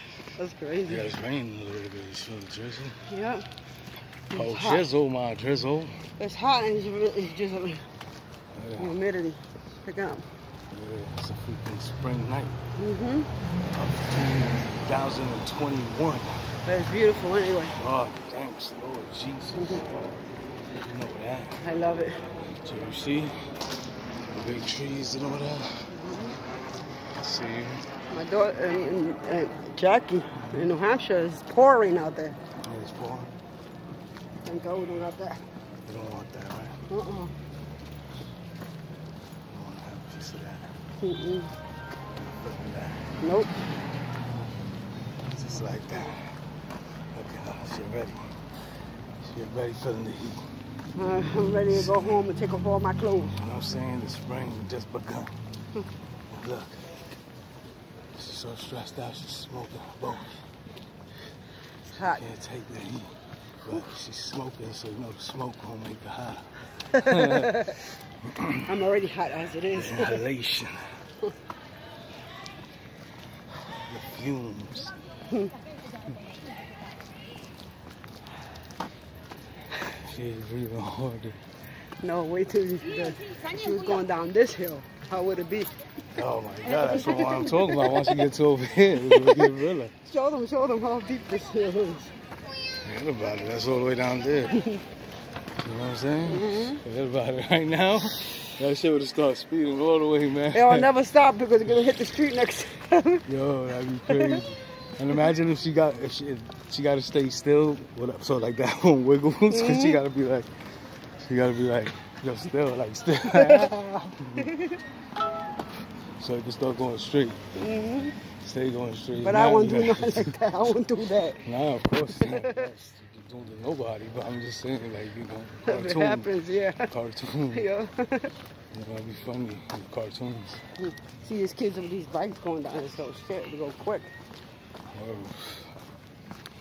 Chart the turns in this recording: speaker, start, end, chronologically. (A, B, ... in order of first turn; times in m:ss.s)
0:00.4-0:01.1 A
0:00.8-0:03.0 B
0:03.1-0:03.5 A
0:04.3-0:04.9 A
0:04.3-0:06.0 B
0:06.2-0:07.9 A
0:08.5-0:09.0 B
0:08.8-0:10.3 A
0:10.7-0:12.6 B
0:12.8-0:13.3 A
0:13.7-0:16.5 B
0:16.6-0:17.8 A
0:17.7-0:20.1 B
0:19.6-0:19.8 A
0:20.8-0:21.6 B
0:21.6-0:22.2 A
0:22.5-0:23.5 B
0:24.3-0:25.9 B
0:25.9-0:26.4 A
0:27.1-0:27.9 B
0:28.1-0:32.4 A
0:30.4-0:30.6 B
0:32.6-0:33.3 B
0:34.4-0:35.4 A
0:35.8-0:36.9 B
0:36.9-0:37.3 A
0:39.5-0:40.8 B
0:41.0-0:41.5 A
0:42.2-0:43.1 B
0:43.2-0:43.6 A
0:45.3-0:46.4 B
0:47.1-0:48.4 B
0:49.2-0:50.5 B
0:51.0-0:53.4 A
0:51.7-0:52.2 B
0:53.4-0:55.3 B
0:56.3-0:57.0 B
0:58.2-1:00.4 B
1:01.9-1:02.2 A
1:02.0-1:08.7 B
1:07.0-1:07.7 A
1:08.7-1:10.2 A
1:09.7-1:10.9 B
1:13.9-1:15.0 B
1:19.8-1:21.4 B
1:22.0-1:25.7 A
1:26.2-1:30.0 B
1:26.8-1:28.2 A
1:29.0-1:32.1 A
1:32.8-1:34.6 B
1:35.6-1:40.9 B
1:36.3-1:36.8 A
1:40.5-1:43.3 A
1:43.3-1:50.5 B
1:44.1-1:44.4 A
1:49.5-1:50.0 A
1:51.2-1:54.5 B
1:53.3-1:53.8 A
1:54.4-1:54.7 A
1:56.2-2:00.4 B
1:57.6-1:58.2 A
1:59.2-2:01.4 A
2:01.4-2:07.7 B
2:02.1-2:02.7 A
2:05.6-2:06.9 A
2:07.5-2:08.3 A
2:08.7-2:10.6 B
2:10.8-2:14.1 A
2:14.9-2:15.7 B